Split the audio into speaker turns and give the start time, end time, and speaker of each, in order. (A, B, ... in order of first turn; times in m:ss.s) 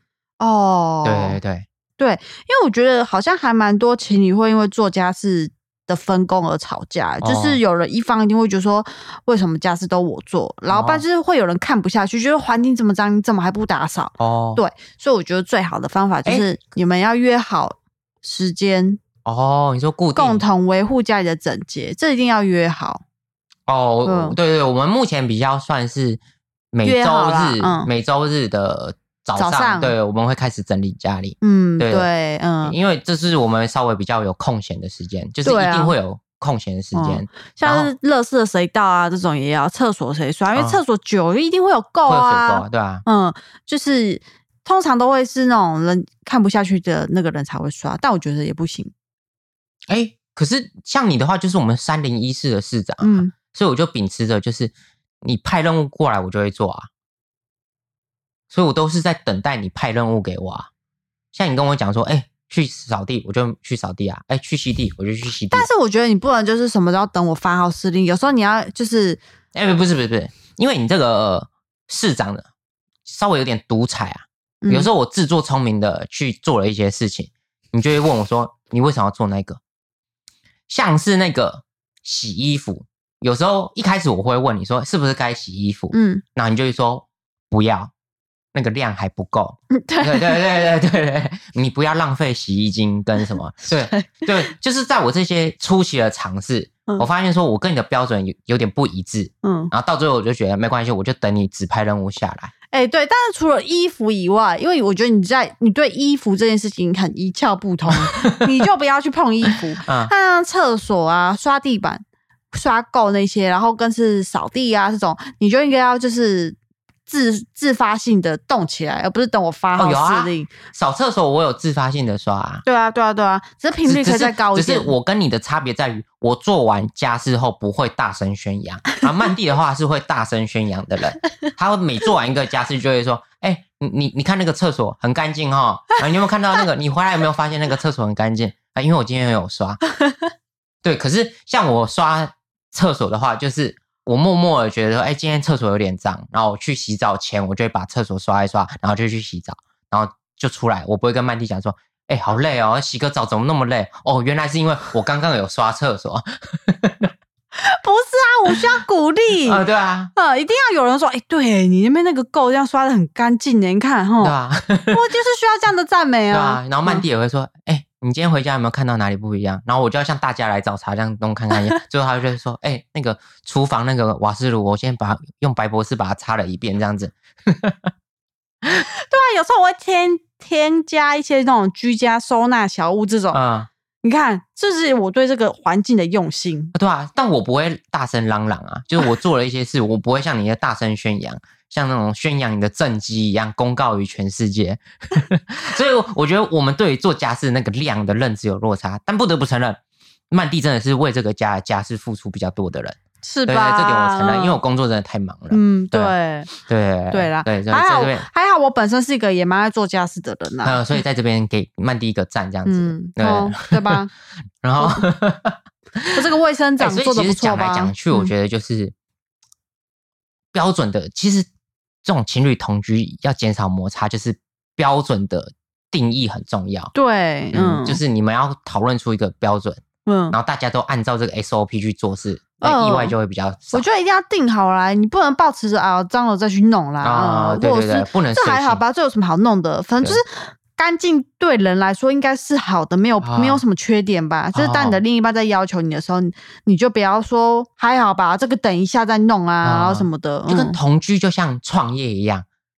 0:00.4-0:01.4 A
0:01.0-0:01.6 B
0:02.0-0:19.0 A
0:07.2-0:07.6 B
0:10.7-0:11.0 B
0:14.2-0:14.6 B
0:19.2-0:20.4 B
0:20.1-0:23.0 A
0:23.7-0:26.2 B
0:24.0-0:24.4 A
0:26.7-0:32.1 B
0:26.8-0:27.9 A
0:29.3-0:29.9 A
0:31.4-0:32.7 A
0:32.6-0:37.9 B
0:35.4-0:36.0 A
0:36.9-0:48.9 A
0:40.5-0:40.8 B
0:42.0-0:43.0 B
0:49.9-0:56.9 B
0:53.0-0:53.3 A
0:58.5-1:00.7 B
1:01.3-1:05.7 B
1:05.5-1:09.2 A
1:09.5-1:12.5 B
1:13.0-1:19.6 B
1:14.6-1:14.9 A
1:20.7-1:27.9 B
1:25.9-1:26.2 A
1:28.5-1:42.5 B
1:29.7-1:30.5 A
1:33.6-1:34.5 A
1:39.4-1:39.7 A
1:42.7-2:00.5 A
1:47.9-1:48.5 B
1:49.8-1:50.1 B
1:59.8-2:02.6 B
2:02.6-2:04.9 A
2:03.8-2:19.8 B
2:20.8-2:37.1 B
2:37.5-2:39.6 A
2:39.4-2:40.1 B
2:40.1-2:44.3 A
2:44.2-2:45.0 B
2:44.9-2:47.0 A
2:46.3-2:57.9 B
2:58.8-3:03.4 A
3:03.3-3:03.7 B
3:04.0-3:06.7 A
3:06.7-3:19.8 B
3:20.3-3:28.3 B
3:23.2-3:24.6 A
3:25.5-3:26.5 A
3:27.1-3:30.9 A
3:30.6-3:34.0 B
3:32.6-3:34.1 A
3:34.6-3:36.2 B
3:34.8-3:35.0 A
3:36.1-3:38.3 A
3:36.8-3:38.9 B
3:40.5-3:41.5 B
3:42.0-3:46.9 B
3:46.9-3:48.0 A
3:47.5-3:53.8 B
3:50.0-3:50.4 A
3:52.6-3:53.1 A
3:53.7-4:10.8 A
3:57.0-3:58.8 B
4:03.2-4:03.6 B
4:04.5-4:05.0 B
4:09.6-4:12.4 B